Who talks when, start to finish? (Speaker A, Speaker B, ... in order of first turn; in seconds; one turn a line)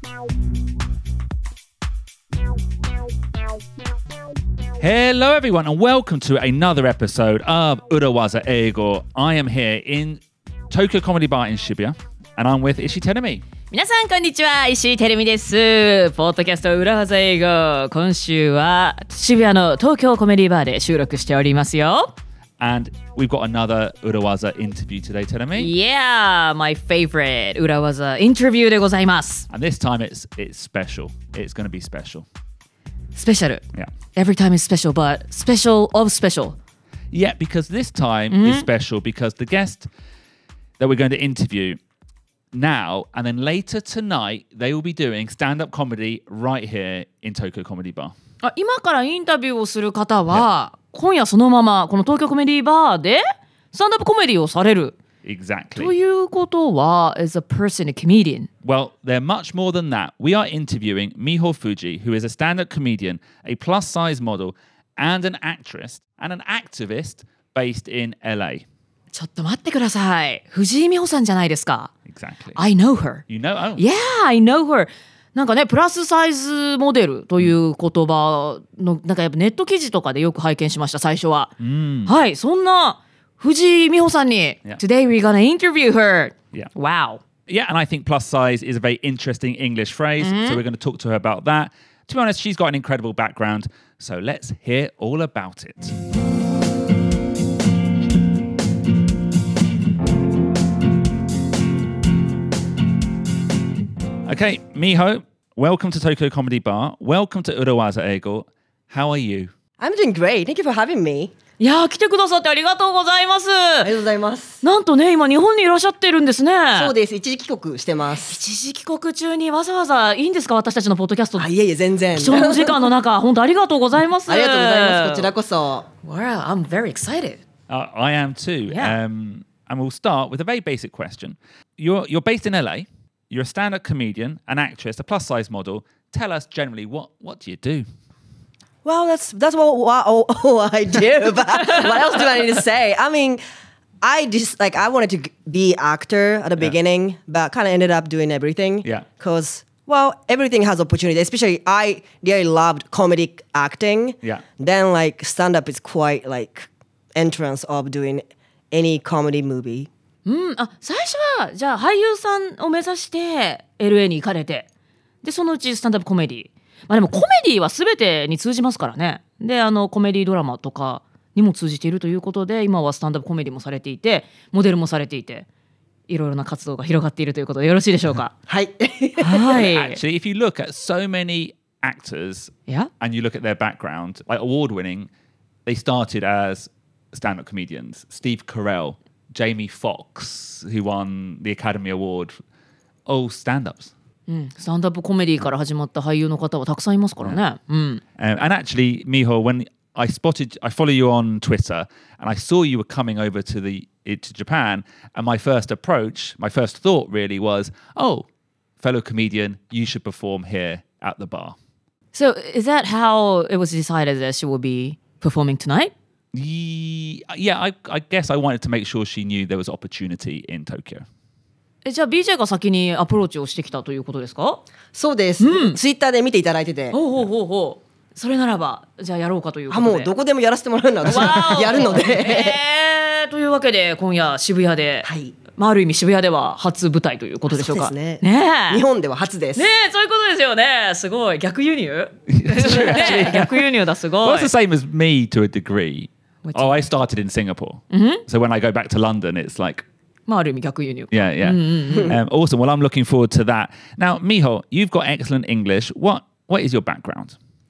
Speaker A: 4.8-13.4
Speaker B: 13.7-22.1
Speaker A: 22.6-25.7
Speaker B: 25.6-29.5
Speaker A: 29.5-32.3
Speaker B: 33.2-33.6
Speaker B: 34.1-36.6
Speaker A: 37.1-39.9
Speaker B: 38.3-38.7
Speaker A: 40.8-41.8
Speaker A: 42.5-48.1
Speaker B: 48.4-55.0
Speaker A: 55.2-55.9
Speaker B: 55.8-58.5
Speaker A: 58.6-68.7
Speaker B: 69.1-71.9
Speaker A: 72.1-72.6
Speaker B: 72.5-73.2
Speaker A: 73.3-73.8
Speaker B: 73.8-81.5
Speaker A: 81.6-82.1
Speaker B: 82.1-87.2
Speaker A: 87.5-95.9
Speaker B: 90.2-90.6
Speaker A: 104.2-109.5
Speaker C: 109.8-111.3
Speaker B: 111.6-113.9
Speaker C: 113.8-114.6
Speaker B: 114.6-116.9
Speaker C: 116.7-118.4
Speaker B: 118.2-121.5
Speaker C: 121.4-122.9
Speaker B: 122.1-125.3
Speaker C: 124.3-125.9
Speaker B: 126.0-127.4
Speaker A: 127.7-137.9
Speaker B: 128.7-128.9
Speaker C: 138.8-143.4
Speaker C: 144.0-159.9
Speaker B: 160.3-164.7
Speaker B: 165.2-175.5
Speaker B: 176.1-178.3
Speaker C: 178.5-179.6
Speaker B: 179.2-180.0
Speaker A: 179.6-185.1
Speaker A: 185.7-192.4
Speaker A: 193.1-193.9
Speaker B: 194.3-198.0
Speaker A: 198.2-208.3
Speaker A: 208.8-211.6
Speaker B: 212.1-215.9
Speaker A: 216.3-221.1
Speaker B: 221.8-224.6
Speaker C: 224.9-227.0
Speaker B: 225.4-225.8
Speaker B: 226.9-230.1
Speaker C: 229.7-232.6
Speaker B: 231.1-238.8
Speaker C: 235.0-235.3
Speaker C: 237.5-239.7
Speaker B: 239.6-244.5
Speaker A: 242.3-243.6
Speaker C: 242.6-243.3
Speaker A: 244.2-249.8
Speaker B: 246.4-246.8
Speaker B: 247.9-248.2
Speaker B: 250.3-252.1
Speaker A: 251.1-257.4